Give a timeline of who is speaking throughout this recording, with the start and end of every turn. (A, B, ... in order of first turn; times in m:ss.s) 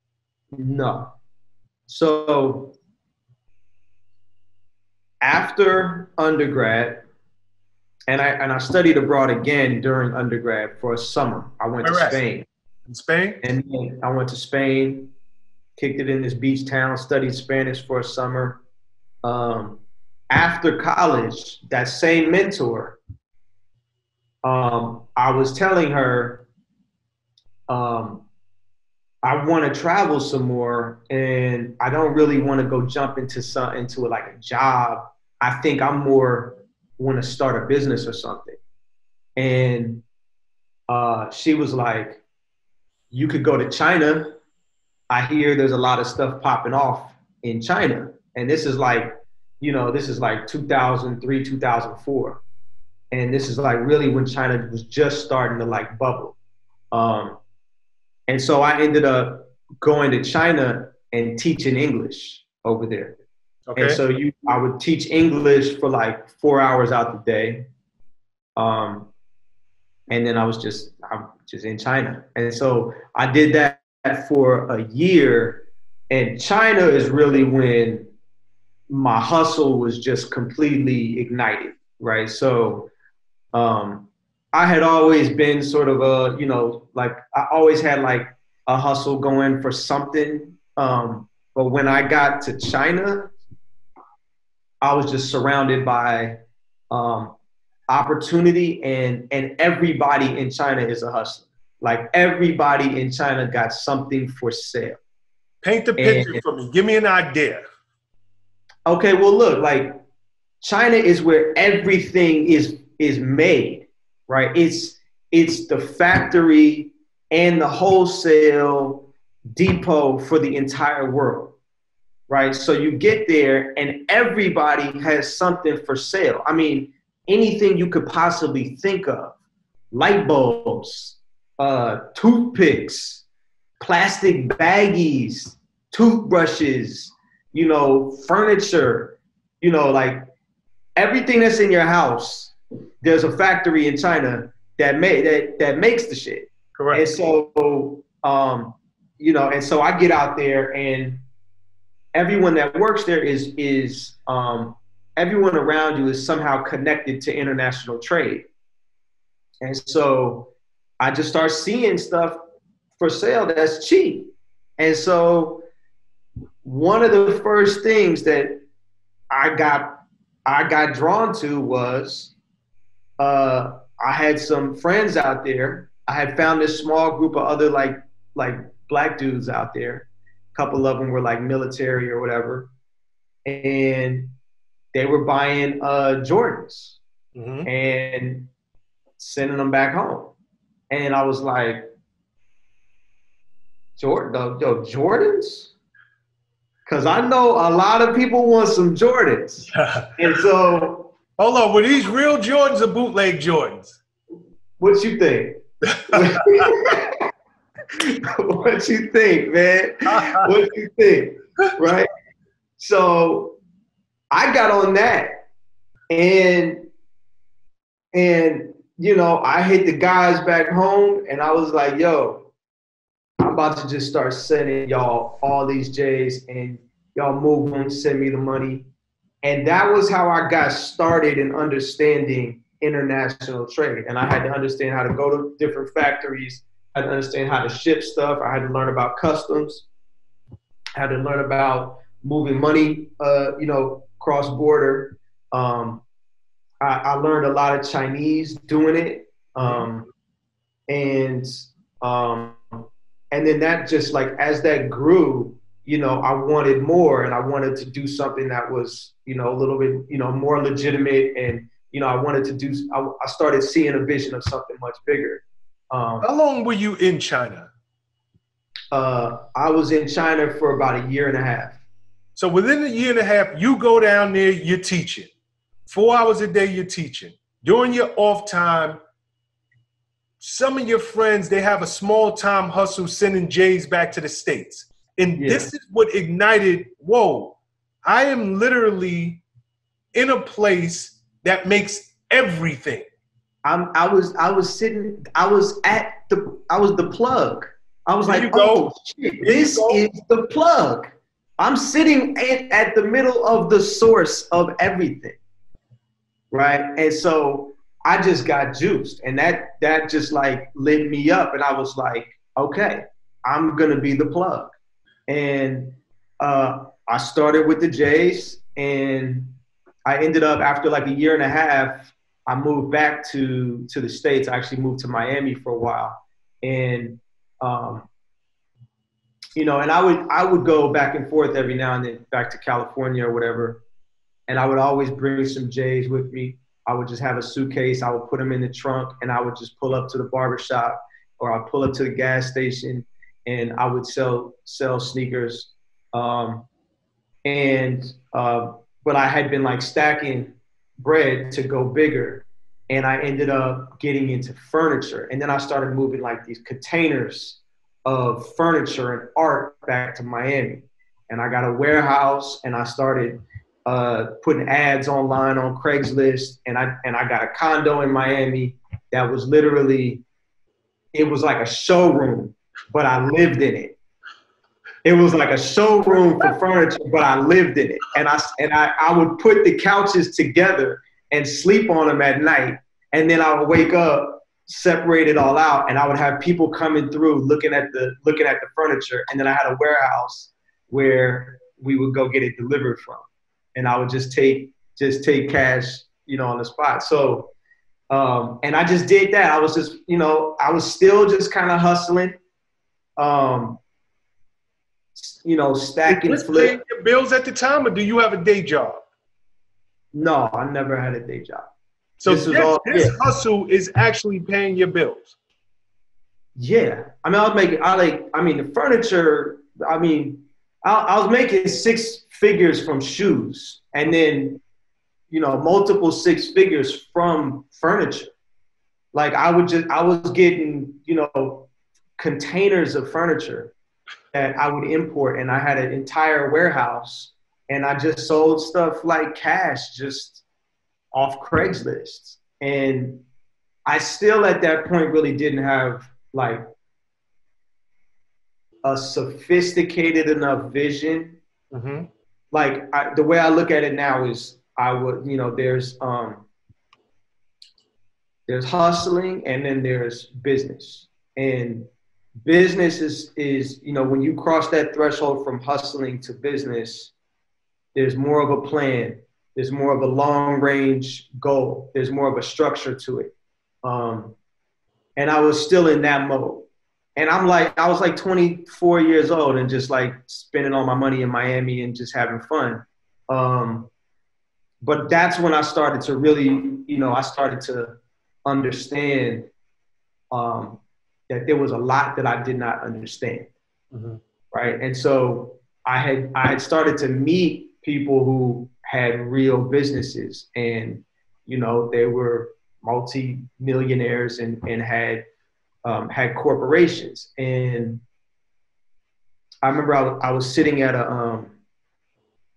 0:00.5-0:01.1 A
0:01.9-0:02.8 A
0:05.2-0:07.1 A
0:08.1-0:12.5 A
0:11.8-0:12.2 B
0:12.9-0:13.4 B
0:13.4-0:15.1 A
0:15.8-0:18.6 A
0:19.2-0:23.0 A
0:24.4-0:26.5 A
0:27.7-0:28.2 A
0:29.2-0:38.6 A
0:39.4-0:40.0 A
0:40.9-0:42.2 A
0:43.1-0:44.4 A
0:45.1-0:52.4 A
0:53.1-0:56.4 A
0:56.9-0:57.4 A
0:58.3-1:03.2 A
1:03.7-1:04.0 B
1:03.8-1:07.7 A
1:08.6-1:09.1 A
1:10.1-1:18.1 A
1:18.9-1:22.9 A
1:23.5-1:33.3 A
1:34.8-1:37.4 A
1:37.9-1:45.0 A
1:45.6-1:47.6 B
1:46.0-1:46.4 A
1:48.9-1:50.0 A
1:50.6-2:01.6 A
2:02.3-2:09.4 A
2:09.9-2:13.2 A
2:13.8-2:20.3 A
2:21.0-2:31.2 A
2:26.8-2:27.1 B
2:32.1-2:38.5 A
2:39.6-2:42.4 A
2:43.0-2:45.7 A
2:46.6-2:48.6 A
2:49.3-2:52.4 A
2:53.2-3:02.7 A
3:03.4-3:04.4 A
3:04.9-3:07.0 A
3:07.4-3:07.7 B
3:07.6-3:08.5 A
3:09.2-3:10.3 A
3:10.9-3:11.9 A
3:14.0-3:15.7 A
3:16.9-3:21.2 A
3:19.7-3:20.4 B
3:21.4-3:24.0 B
3:24.8-3:27.3 A
3:25.9-3:27.0 B
3:27.9-3:32.1 A
3:30.1-3:30.5 B
3:32.8-3:33.6 A
3:34.3-3:35.4 A
3:36.1-3:36.9 A
3:38.1-3:42.5 A
3:43.4-3:48.9 A
3:49.4-3:59.9 A
4:01.0-4:06.1 A
4:06.8-4:10.1 A
4:09.6-4:09.9 B
4:10.9-4:26.3 A
4:26.2-4:27.7 B
4:28.9-4:31.8 A
4:32.4-4:35.3 B
4:35.9-4:39.0 B
4:40.4-4:49.4 B
4:45.4-4:45.7 A
4:50.1-4:53.1 B
4:53.6-5:05.4 A
4:58.2-5:00.1 B
5:06.5-5:14.7 A
5:15.3-5:28.1 A
5:29.6-5:33.8 A
5:34.5-5:46.7 A
5:47.4-6:10.2 A
6:11.1-6:14.0 A
6:15.0-6:37.5 A
6:38.1-6:42.4 A
6:43.2-6:43.8 A
6:45.2-6:46.8 A
6:46.1-6:49.0 B
6:50.1-6:51.7 A
6:52.2-6:55.3 B
6:52.3-6:53.2 A
6:56.6-7:04.6 A
7:05.3-7:08.3 A
7:09.1-7:13.7 A
7:14.3-7:20.4 A
7:21.1-7:23.3 A
7:23.9-7:26.6 A
7:28.8-7:31.4 A
7:31.7-7:32.1 B
7:32.5-7:36.5 A
7:38.5-7:41.9 A
7:42.4-7:47.1 A
7:48.0-7:53.3 A
7:53.8-7:54.4 A
7:55.2-8:03.9 A
8:04.8-8:09.5 A
8:10.3-8:13.5 A
8:13.9-8:14.2 B
8:14.5-8:25.3 A
8:25.8-8:28.0 A
8:29.6-8:31.5 A